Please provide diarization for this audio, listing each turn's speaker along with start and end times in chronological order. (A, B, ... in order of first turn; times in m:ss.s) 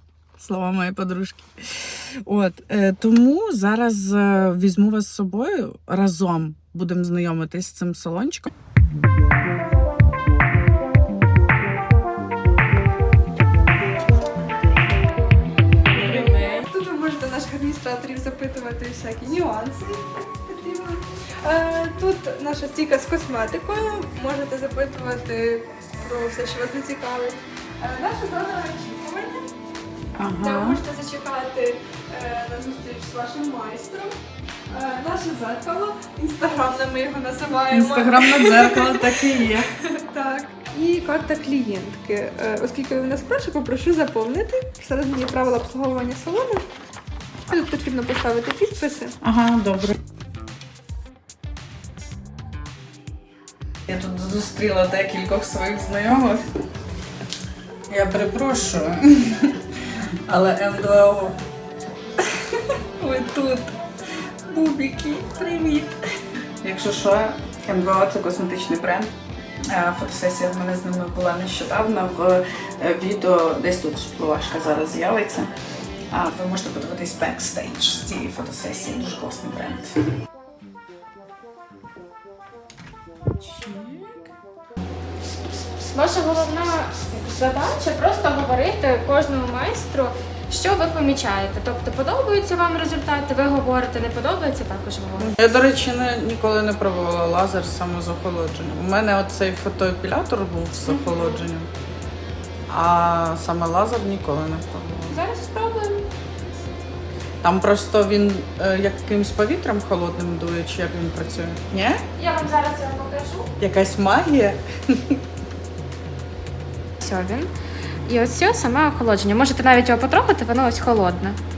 0:00.4-0:08.5 A
0:15.9-0:29.5 B
0:30.2-0:30.8 A
0:30.4-0:34.1 B
0:34.7-0:46.6 B
0:37.7-0:39.7 A
0:47.5-0:49.2 B
0:49.2-0:50.0 A
0:53.9-0:56.4 A
0:57.9-1:01.4 A
1:02.2-1:03.8 A
1:04.5-1:06.0 A
1:06.6-1:09.1 A
1:09.7-1:15.5 A
1:16.1-1:20.0 A
1:23.4-1:24.3 A
1:25.9-1:35.3 C
1:35.2-1:41.7 A
1:40.8-1:41.4 C
1:42.7-1:45.2 A
1:45.0-1:46.1 C
1:47.4-1:52.0 A
1:52.2-1:53.5 C
1:53.6-1:55.2 A
1:57.0-1:57.5 C
1:58.0-2:01.4 C